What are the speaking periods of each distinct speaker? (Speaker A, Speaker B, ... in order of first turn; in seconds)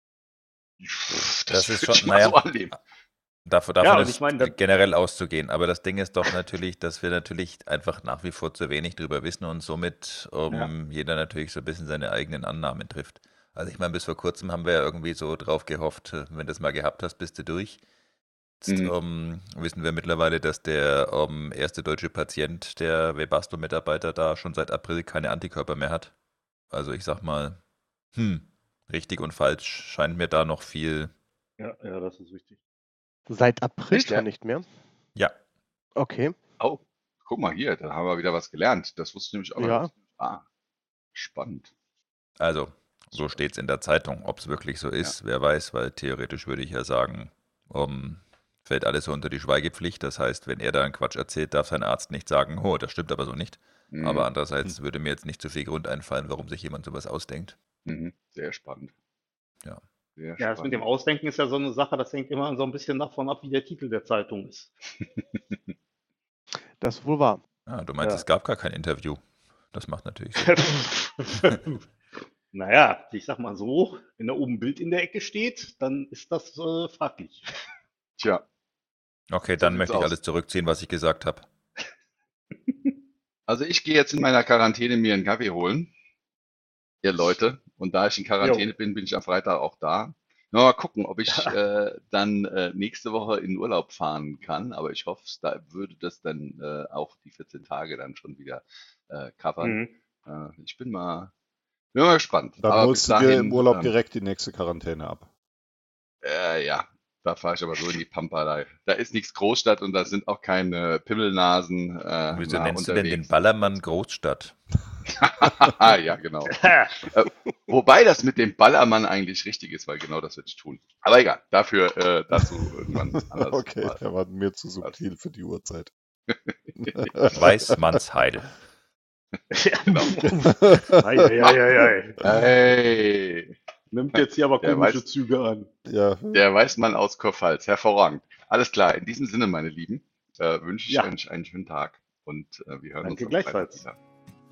Speaker A: 0.8-2.7, 18.7-18.9, 33.9-34.2, 36.6-40.4, 41.1-41.7, 43.1-43.4, 53.9-54.3, 57.8-58.9, 60.2-60.8, 65.0-65.7, 78.2-78.4, 79.6-80.1, 83.5-85.9, 87.0-101.3, 101.9-103.9, 106.2-113.4, 115.1-124.0, 126.3-127.1, 129.9-130.4, 132.2-133.5, 134.1-135.0, 136.3-144.0
Speaker B: 1.5-2.4, 3.5-17.8, 18.6-26.1, 26.7-27.6, 28.1-31.1, 42.4-57.6, 67.7-69.2, 69.7-70.6, 79.3-81.5, 112.3-114.5, 127.3-128.5
Speaker C: 3.8-4.5, 31.6-32.6, 60.4-64.7, 70.4-71.8, 72.5-77.4, 88.4-88.7, 91.3-91.5, 99.6-99.9, 116.5-116.9, 129.5-132.2, 133.9-135.7, 143.0-143.8
Speaker D: 33.3-34.7, 36.0-36.3, 39.6-39.9, 66.8-67.4
Speaker E: 102.6-105.3, 122.9-125.9, 126.8-127.7, 130.4-131.3, 135.8-136.4